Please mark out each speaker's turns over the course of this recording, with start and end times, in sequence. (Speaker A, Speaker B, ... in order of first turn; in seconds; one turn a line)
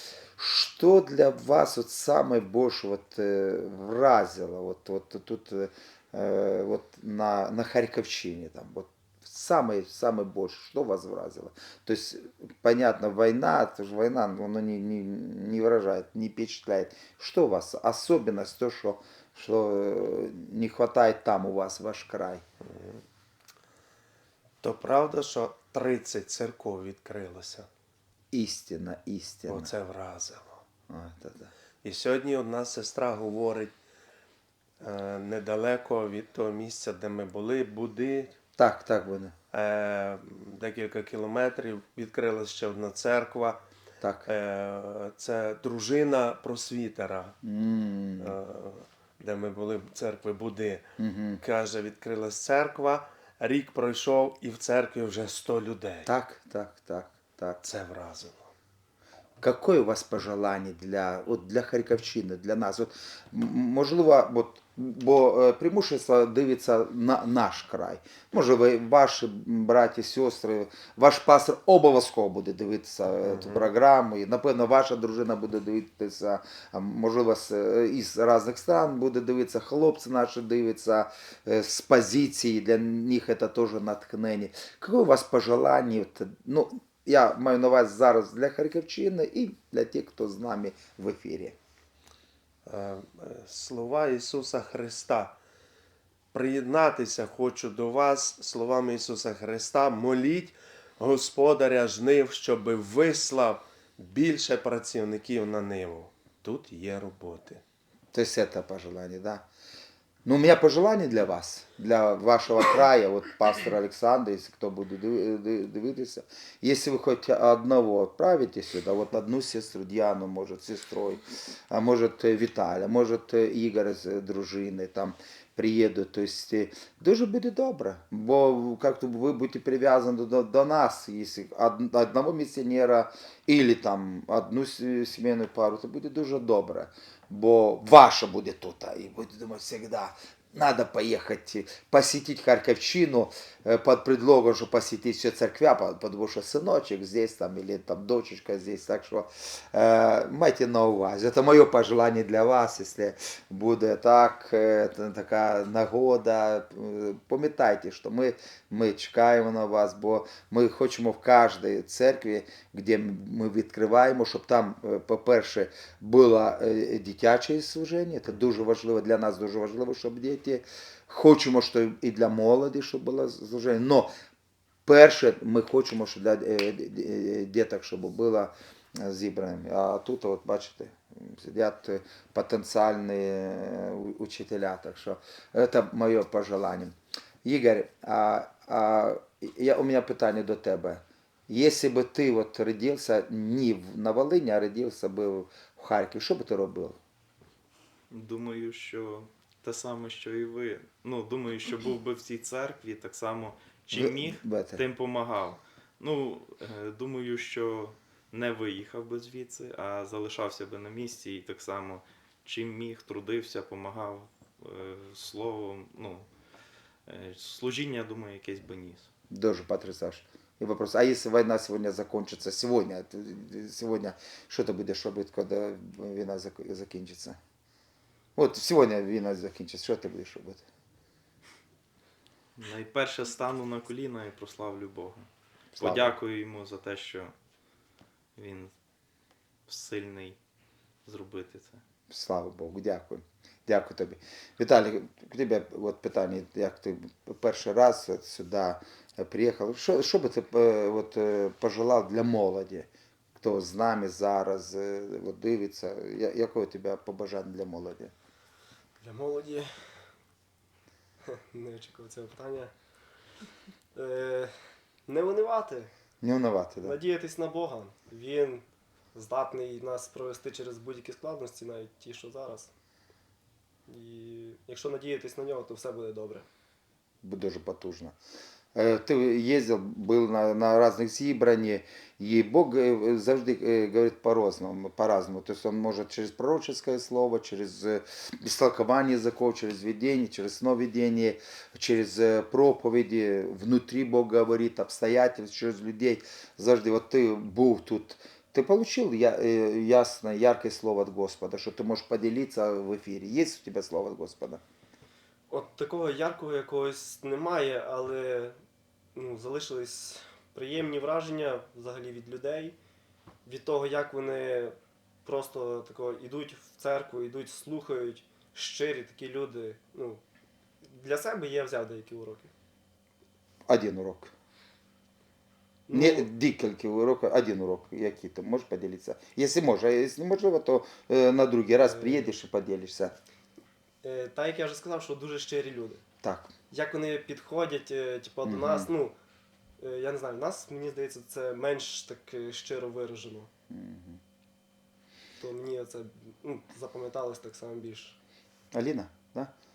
Speaker A: 0.4-22.4
Speaker B: 22.6-23.0
Speaker B: 24.6-27.7
Speaker A: 28.3-29.7
Speaker B: 29.5-30.6
Speaker A: 30.9-31.5
Speaker B: 31.8-33.7
Speaker B: 34.8-38.3
Speaker A: 38.6-39.3
Speaker B: 39.5-43.6
Speaker A: 44.0-44.3
Speaker B: 44.3-47.3
Speaker A: 47.4-48.4
Speaker B: 48.2-50.8
Speaker A: 51.0-51.4
Speaker B: 51.4-56.1
Speaker A: 56.0-57.6
Speaker B: 57.6-58.5
Speaker A: 59.4-91.5
Speaker B: 73.2-73.7
Speaker B: 92.7-95.3
Speaker B: 96.3-107.6
Speaker A: 108.1-109.4
Speaker A: 110.2-174.1
Speaker A: 174.8-197.0
Speaker C: 198.1-216.3
Speaker A: 203.9-204.8
Speaker C: 217.1-219.1
Speaker A: 219.3-227.4
Speaker A: 228.3-230.6
Speaker C: 232.6-235.2
Speaker A: 235.8-236.1
Speaker C: 235.8-237.3
Speaker C: 238.3-238.7
Speaker C: 239.7-240.4
Speaker C: 241.0-241.8
Speaker A: 242.1-252.9
Speaker A: 253.4-258.1
Speaker D: 259.0-259.7
Speaker D: 261.4-262.7
Speaker D: 263.9-264.5
Speaker D: 265.1-265.9
Speaker A: 266.2-266.9
Speaker D: 266.8-272.7
Speaker D: 273.9-276.5
Speaker A: 277.2-278.1
Speaker A: 278.7-304.6
Speaker D: 305.5-308.6
Speaker D: 309.1-312.8
Speaker D: 313.4-320.2
Speaker D: 320.8-322.5
Speaker A: 323.7-324.3
Speaker D: 325.9-326.3
Speaker A: 325.9-333.1
Speaker D: 331.9-332.2
Speaker D: 334.0-336.0
Speaker A: 336.2-336.5
Speaker D: 336.7-339.1
Speaker A: 338.4-338.9
Speaker D: 339.8-343.5
Speaker A: 343.7-344.2
Speaker D: 345.4-348.2
Speaker A: 348.7-349.5